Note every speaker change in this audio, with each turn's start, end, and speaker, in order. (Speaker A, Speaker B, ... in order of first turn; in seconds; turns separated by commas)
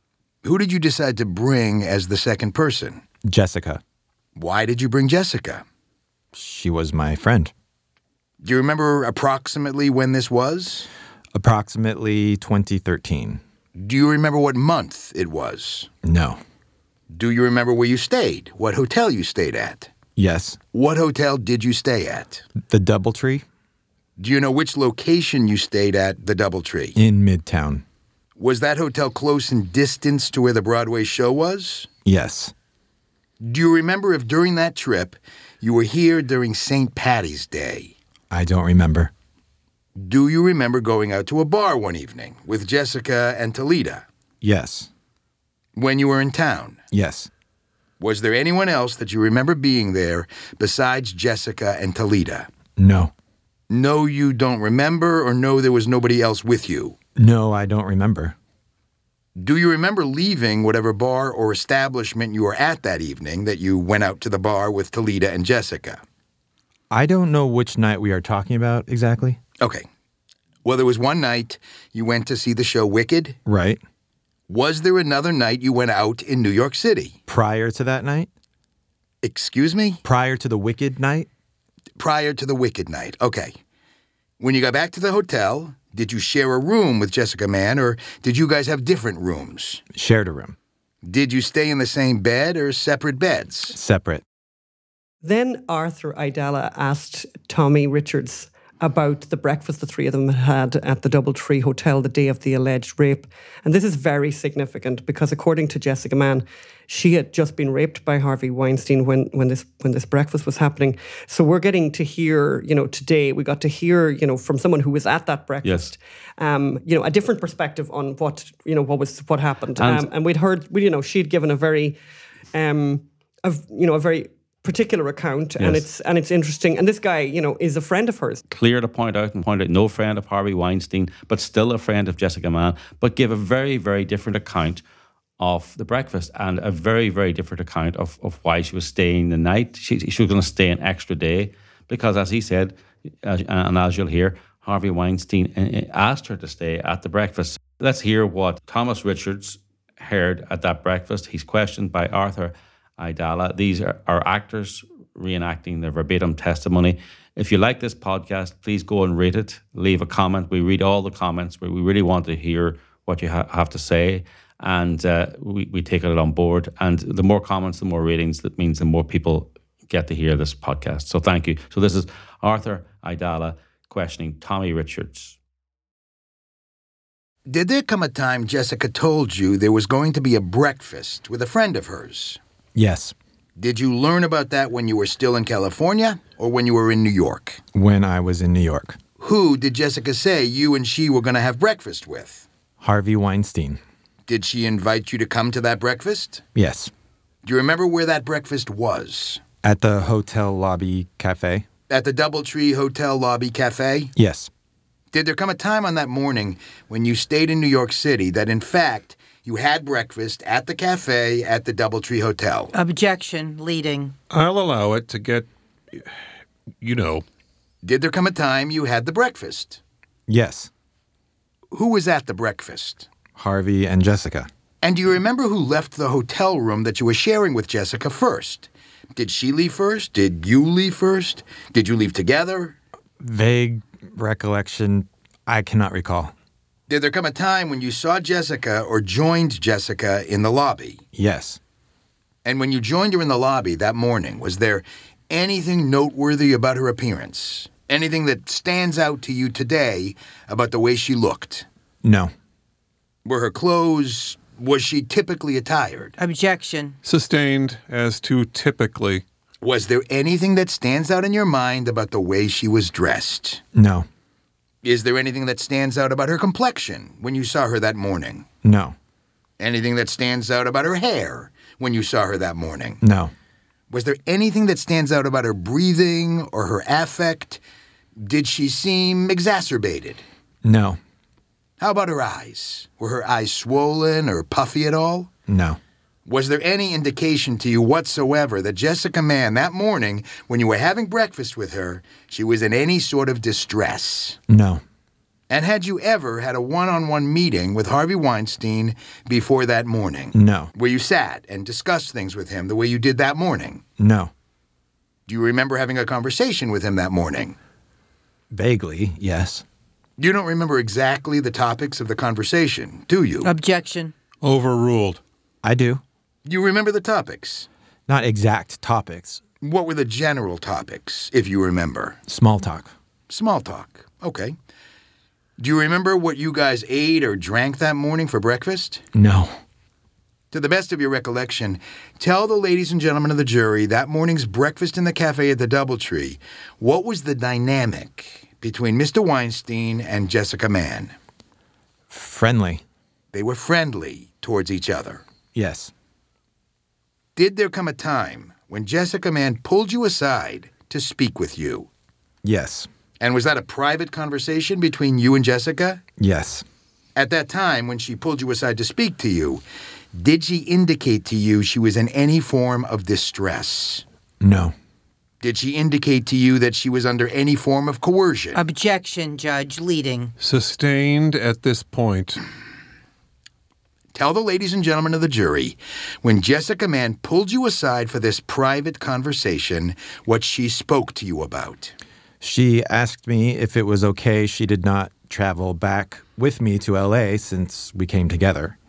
Speaker A: 0.4-3.0, Speaker B: 3.2-3.8, Speaker A: 4.3-5.6, Speaker B: 6.3-7.5, Speaker A: 8.4-10.9, Speaker B: 11.3-13.4, Speaker A: 13.8-15.9, Speaker B: 16.0-16.4, Speaker A: 17.1-19.9, Speaker B: 20.1-20.6, Speaker A: 20.7-22.4, Speaker B: 22.6-23.4, Speaker A: 24.2-27.0, Speaker B: 26.9-27.8, Speaker A: 28.4-31.9, Speaker B: 32.0-32.5, Speaker A: 33.4-37.9, Speaker B: 38.3-39.1, Speaker A: 40.0-44.0, Speaker B: 44.4-44.9, Speaker A: 45.8-46.8, Speaker B: 46.9-47.3, Speaker A: 48.0-52.5, Speaker B: 52.8-53.1, Speaker A: 53.7-57.0, Speaker B: 57.1-58.3, Speaker A: 59.4-66.0, Speaker B: 66.9-69.4, Speaker A: 69.6-69.8, Speaker A: 70.6-73.4, Speaker B: 73.5-73.8, Speaker A: 74.5-77.2, Speaker B: 77.3-78.3, Speaker A: 79.2-80.0, Speaker B: 80.0-81.3, Speaker A: 82.0-83.5, Speaker A: 84.4-89.8, Speaker B: 89.9-90.5, Speaker A: 91.0-93.8, Speaker B: 93.7-94.2, Speaker C: 95.2-122.0, Speaker D: 115.6-115.9, Speaker D: 119.8-120.0, Speaker C: 122.5-128.4, Speaker D: 125.6-125.8, Speaker D: 128.5-134.8, Speaker D: 135.4-175.4, Speaker A: 177.5-182.4, Speaker B: 182.7-183.1, Speaker A: 183.6-187.6, Speaker B: 187.7-189.0, Speaker A: 189.2-192.4, Speaker B: 192.8-193.8, Speaker A: 194.3-196.4, Speaker B: 196.5-196.9, Speaker A: 197.4-199.4, Speaker B: 199.6-201.7, Speaker A: 201.9-204.1, Speaker B: 204.2-204.5, Speaker A: 205.1-212.7, Speaker E: 212.7-214.1, Speaker F: 214.3-216.1, Speaker F: 216.8-217.2, Speaker A: 217.8-219.8, Speaker B: 220.3-220.7, Speaker A: 221.7-223.1, Speaker B: 223.3-224.5, Speaker A: 224.8-232.8, Speaker B: 233.2-236.3, Speaker A: 236.9-241.0, Speaker B: 241.1-241.6, Speaker A: 242.4-251.7, Speaker B: 252.0-252.3, Speaker A: 253.2-256.1, Speaker E: 256.2-256.9, Speaker F: 257.0-259.2, Speaker A: 259.6-263.6, Speaker B: 263.7-264.1, Speaker A: 264.8-268.4, Speaker B: 268.6-268.9, Speaker A: 269.6-273.0, Speaker B: 273.0-273.3, Speaker A: 273.9-277.6, Speaker A: 278.2-280.2, Speaker B: 280.6-281.0, Speaker A: 281.8-285.3, Speaker B: 285.5-285.8, Speaker A: 286.2-294.4, Speaker B: 294.5-294.8, Speaker A: 295.5-303.8, Speaker B: 300.3-300.7, Speaker B: 304.0-304.3, Speaker A: 305.3-307.6, Speaker B: 308.5-309.6, Speaker A: 310.2-313.5, Speaker E: 313.4-314.1, Speaker F: 314.4-315.2, Speaker B: 315.6-316.0, Speaker A: 316.4-317.7, Speaker B: 318.1-319.4, Speaker A: 319.6-322.2, Speaker B: 322.3-322.9, Speaker A: 323.3-324.6, Speaker A: 325.6-329.0, Speaker B: 329.1-329.6, Speaker A: 330.5-341.1, Speaker B: 342.1-342.8, Speaker A: 343.3-345.2, Speaker B: 345.5-345.9, Speaker A: 347.4-351.9, Speaker B: 352.4-352.9, Speaker A: 353.2-356.0, Speaker B: 356.2-356.6, Speaker A: 357.1-359.6, Speaker A: 360.1-364.0, Speaker B: 364.4-364.7, Speaker A: 365.4-368.6, Speaker E: 368.5-370.3, Speaker F: 370.4-372.4, Speaker A: 374.1-381.9, Speaker B: 382.4-388.8